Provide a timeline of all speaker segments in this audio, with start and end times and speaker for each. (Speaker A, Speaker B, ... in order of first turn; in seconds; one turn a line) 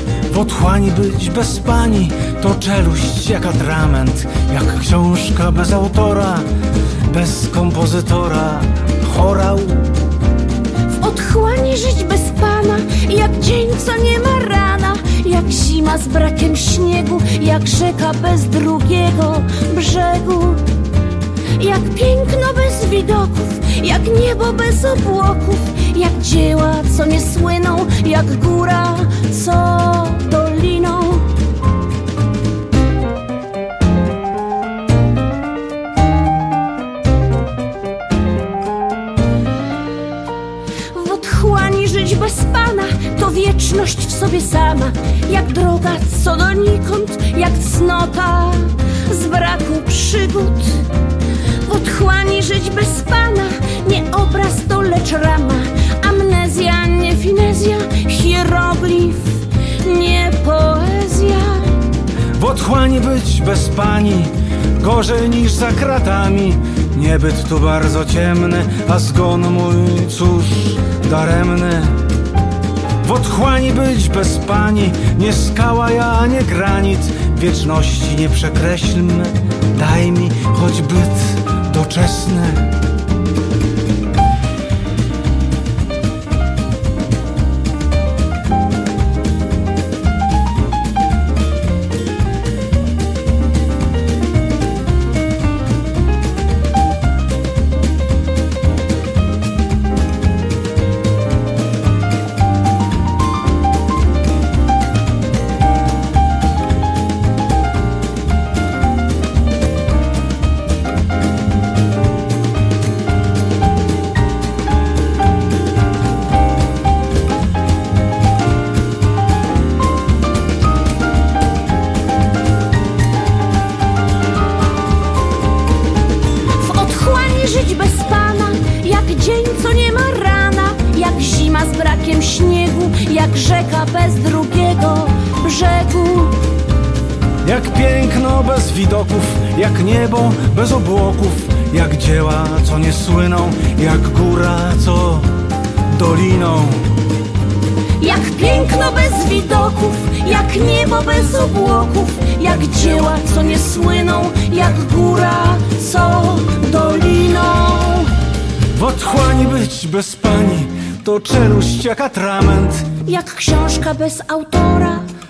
Speaker A: 0.3-6.5
Speaker A: 7.0-10.0
Speaker B: 10.9-20.8
Speaker B: 21.5-31.4
Speaker B: 40.9-61.9
Speaker A: 62.3-72.1
Speaker A: 73.0-82.8
Speaker B: 126.5-136.4
Speaker A: 137.4-145.3
Speaker A: 145.9-147.0
Speaker B: 148.0-158.2
Speaker A: 158.7-163.0
Speaker B: 163.0-165.1